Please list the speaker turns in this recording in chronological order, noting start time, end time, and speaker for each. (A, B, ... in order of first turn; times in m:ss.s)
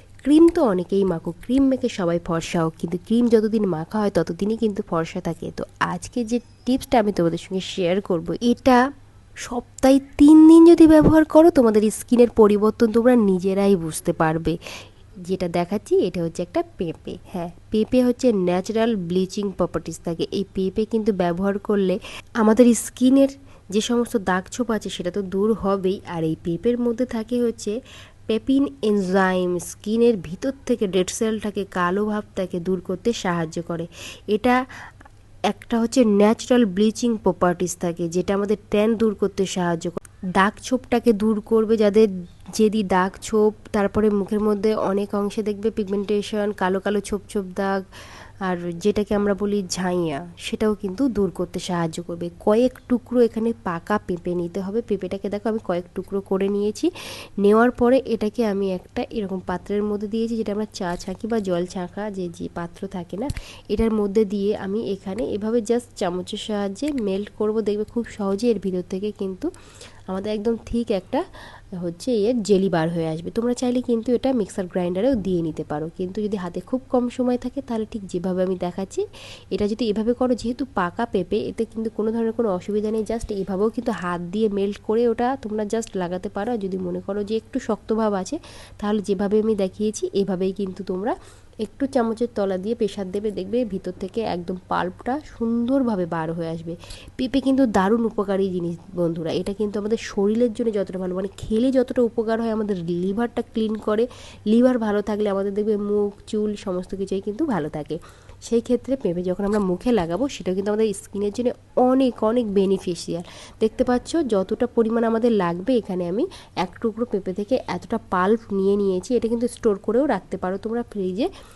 0:00.2-0:08.8 A
0:09.5-0:14.6 A
0:15.3-0:27.8 A
0:28.3-0:34.6 A
0:35.5-0:42.1 A
0:42.6-0:47.8 A
0:48.5-0:56.9 A
0:57.4-1:09.5 A
1:10.1-1:11.2 A
1:11.8-1:19.0 A
1:19.5-2:01.3 A